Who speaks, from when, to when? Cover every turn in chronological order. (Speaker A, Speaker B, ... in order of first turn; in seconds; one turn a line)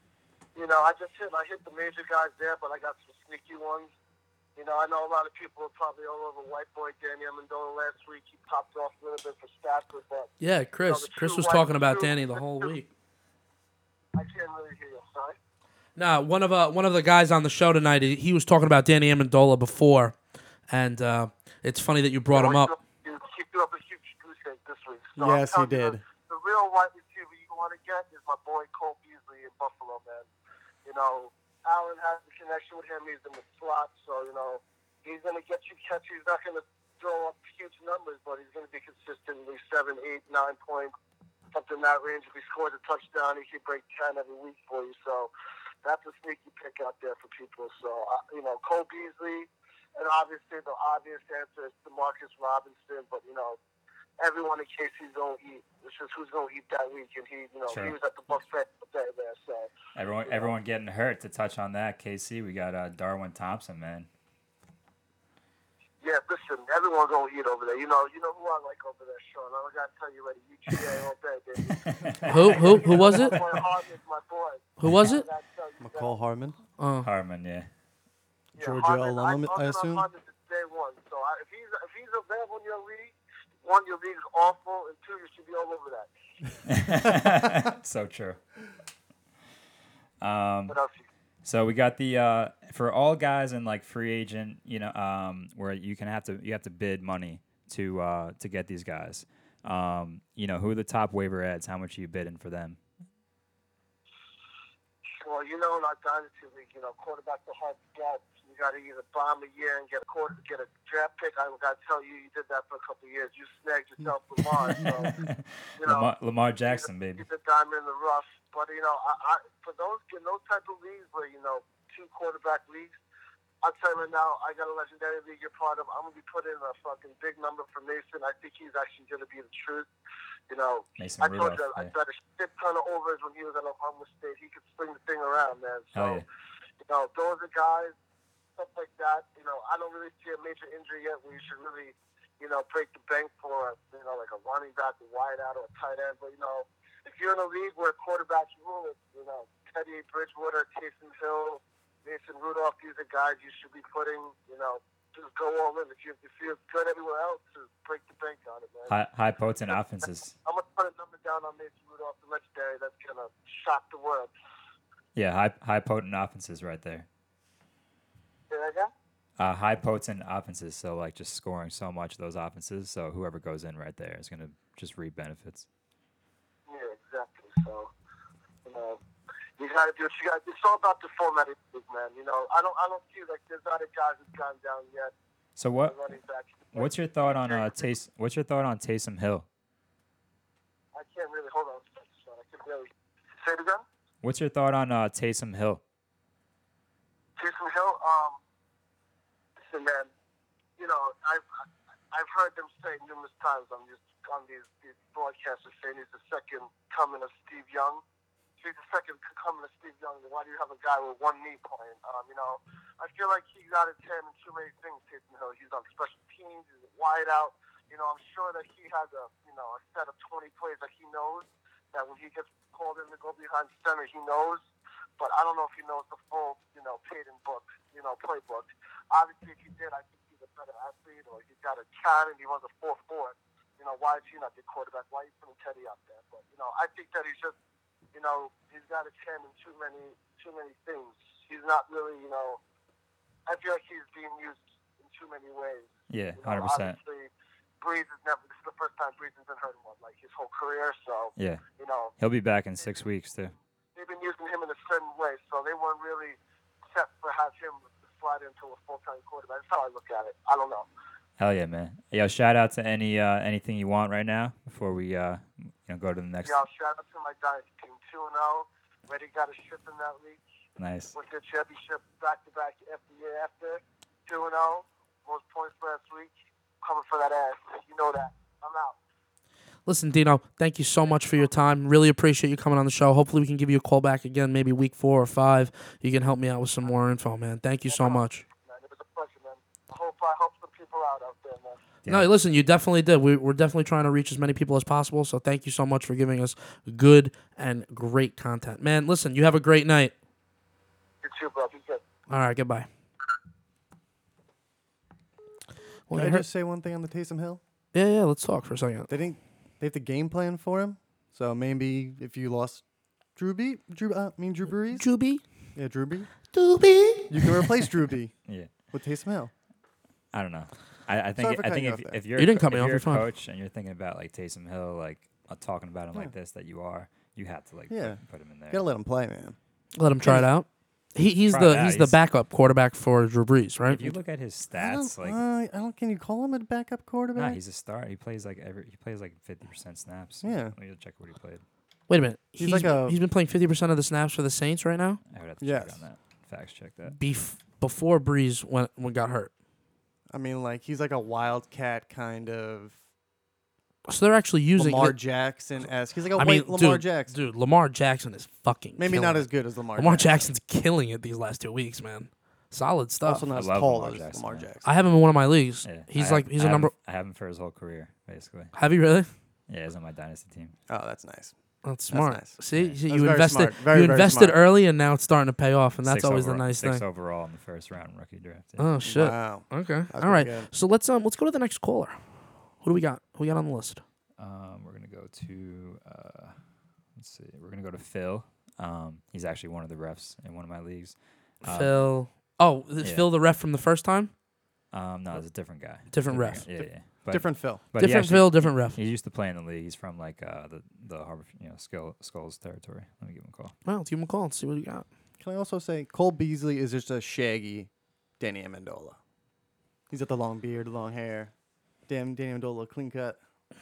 Speaker A: 0.5-3.9
Speaker A: 4.5-10.3
Speaker B: 10.4-12.9
Speaker A: 10.8-12.7
Speaker A: 14.1-15.4
Speaker B: 15.9-20.1
Speaker B: 20.7-22.7
Speaker A: 22.3-30.3
Speaker C: 25.2-26.0
Speaker A: 30.8-40.9
Speaker A: 41.5-45.3
Speaker A: 45.8-53.6
Speaker A: 54.2-59.7
Speaker D: 57.7-58.0
Speaker D: 59.9-64.1
Speaker A: 66.0-76.2
Speaker D: 71.6-73.6
Speaker B: 72.3-73.4
Speaker B: 74.8-75.2
Speaker C: 75.8-76.5
Speaker B: 76.8-77.1
Speaker D: 77.0-77.7
Speaker C: 78.5-80.1
Speaker A: 78.5-86.1
Speaker D: 86.7-88.4
Speaker D: 90.2-90.8
Speaker A: 90.7-91.0
Speaker D: 91.4-102.8
Speaker A: 105.2-115.2
Speaker D: 114.5-117.2
Speaker C: 114.8-115.0
Speaker A: 115.8-116.1
Speaker A: 116.7-123.0
Speaker A: 123.6-129.9
Speaker A: 130.5-136.2
Speaker D: 131.0-131.9
Speaker D: 135.9-136.2
Speaker A: 136.8-137.9
Speaker A: 138.6-158.9
Speaker D: 158.9-160.3
Speaker A: 160.4-164.3
Speaker D: 165.1-167.1
Speaker A: 168.5-168.9
Speaker D: 169.4-175.7
Speaker A: 176.7-177.9
Speaker A: 178.7-179.0
Speaker A: 179.6-185.1
Speaker D: 185.6-186.0
Speaker A: 185.8-187.9
Speaker D: 186.7-189.4
Speaker A: 190.9-192.9
Speaker A: 193.4-193.8
Speaker D: 194.2-195.8
Speaker A: 197.4-198.4
Speaker A: 199.6-200.1
Speaker A: 200.8-201.4
Speaker A: 202.1-208.0
Speaker A: 208.6-224.6
Speaker A: 225.2-237.5
Speaker A: 238.1-242.6
Speaker A: 243.5-247.3
Speaker D: 246.1-247.0
Speaker A: 247.8-252.1
Speaker D: 251.3-251.6
Speaker D: 252.2-253.5
Speaker A: 253.9-256.4
Speaker A: 256.9-260.9
Speaker D: 261.4-266.6
Speaker A: 266.4-270.4
Speaker D: 270.8-271.1
Speaker A: 271.1-279.0
Speaker B: 279.9-288.4
Speaker A: 287.9-291.8
Speaker D: 292.0-292.3
Speaker B: 292.1-300.1
Speaker A: 301.2-302.0
Speaker B: 302.3-302.9
Speaker B: 306.1-306.4
Speaker C: 306.1-307.6
Speaker B: 307.9-309.1
Speaker C: 309.1-312.8
Speaker C: 313.4-315.1
Speaker B: 314.9-315.4
Speaker C: 315.8-316.3
Speaker B: 316.5-317.6
Speaker C: 317.3-318.3
Speaker D: 318.5-318.7
Speaker C: 318.9-319.5
Speaker D: 320.3-328.8
Speaker C: 321.4-322.2
Speaker B: 322.4-323.3
Speaker C: 327.9-329.6
Speaker B: 329.9-334.1
Speaker C: 330.2-330.5
Speaker D: 331.5-332.2
Speaker D: 333.9-335.4
Speaker C: 334.7-337.6
Speaker D: 337.3-341.6
Speaker C: 340.4-340.7
Speaker B: 342.1-345.2
Speaker C: 342.6-343.2
Speaker D: 345.3-347.2
Speaker C: 345.6-346.0
Speaker B: 347.2-349.5
Speaker C: 350.3-352.9
Speaker B: 354.1-355.2
Speaker C: 354.8-357.3
Speaker B: 356.4-363.4
Speaker C: 359.0-360.5
Speaker C: 363.2-364.8
Speaker D: 363.5-364.7
Speaker B: 364.8-366.9
Speaker D: 365.8-368.7
Speaker B: 368.7-369.3
Speaker D: 369.7-370.7
Speaker C: 370.9-371.5
Speaker B: 371.8-377.0
Speaker C: 372.1-374.6
Speaker D: 372.7-373.0
Speaker D: 376.0-378.9
Speaker B: 378.8-382.2
Speaker C: 379.0-380.7
Speaker B: 382.8-384.0
Speaker D: 384.4-386.6
Speaker D: 387.1-392.0
Speaker B: 391.6-394.3
Speaker D: 393.0-393.3
Speaker D: 394.9-403.7
Speaker B: 396.1-396.9
Speaker C: 397.3-397.9
Speaker B: 397.9-399.0
Speaker B: 403.9-405.1
Speaker C: 405.4-409.2
Speaker C: 410.1-411.5
Speaker C: 412.1-413.4